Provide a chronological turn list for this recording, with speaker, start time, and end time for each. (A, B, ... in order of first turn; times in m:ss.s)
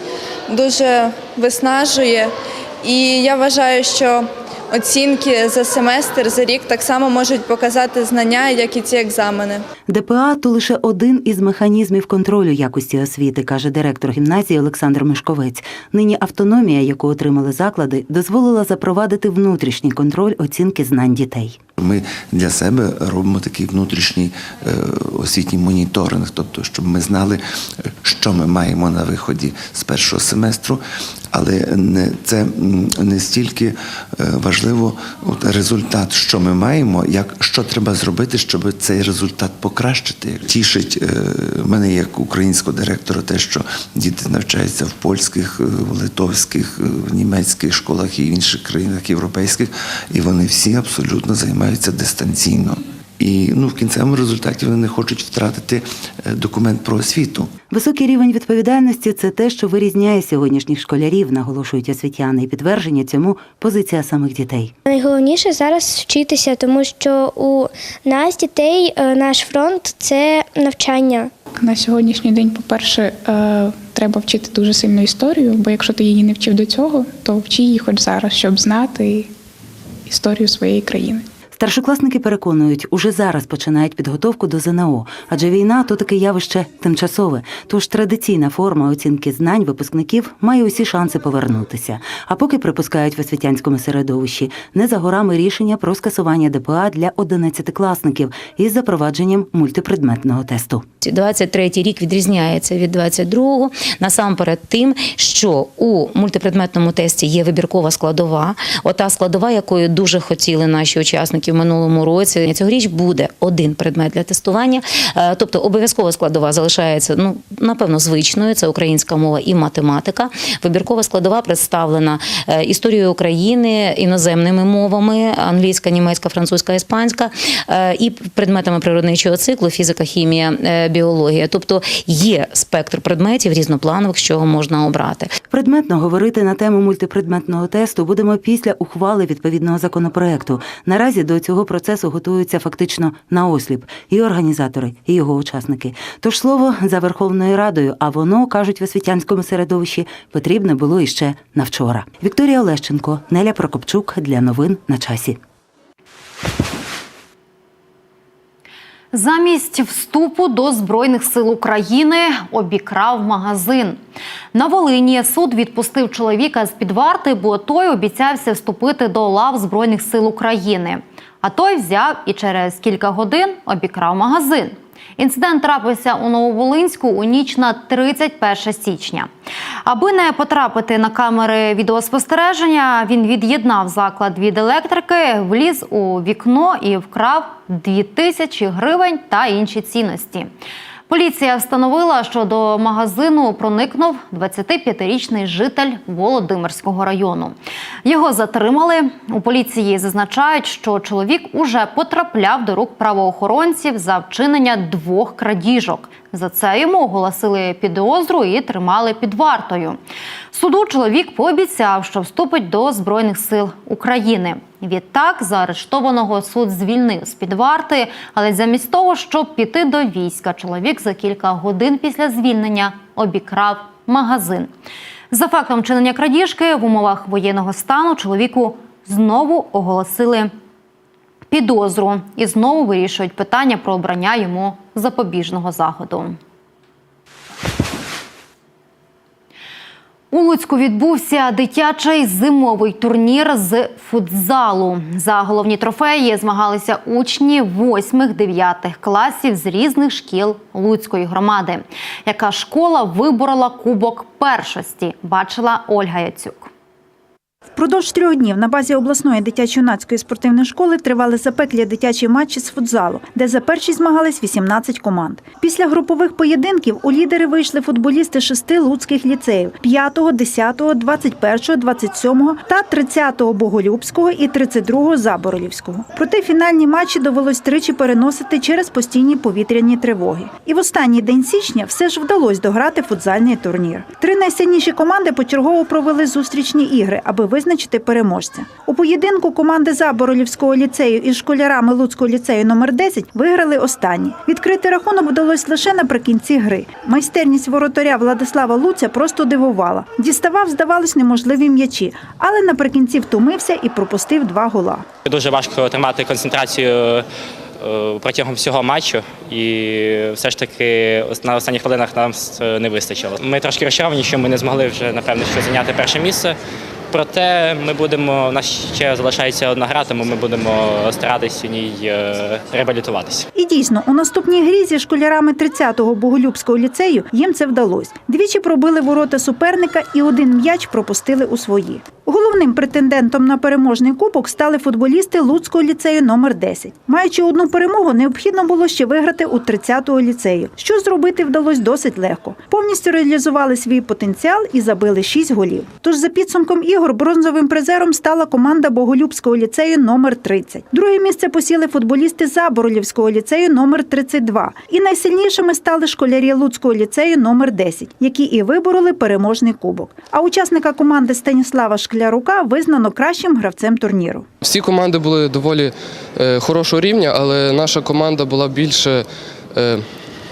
0:00.5-0:09.6 A
0:09.9-0:21.6 B
0:21.8-0:57.5 C
0:57.7-1:04.7 B
1:04.9-1:11.3 D
1:11.6-1:19.3 E
1:20.1-1:21.2 E
1:21.5-1:40.8 B
1:41.0-2:15.4 F
2:15.5-2:35.4 B
2:39.1-2:44.0 G
2:44.5-2:59.3 G
2:59.8-3:10.5 G
3:11.1-3:30.0 G
3:30.5-3:44.7 G
3:45.3-3:50.5 G
3:51.5-3:56.4 G
4:00.3-4:16.7 G
4:17.7-5:05.1 H
5:05.2-5:07.3 I
5:07.8-5:16.6 I
5:17.1-5:23.5 I
5:23.6-6:04.5 H
6:04.6-6:10.1 J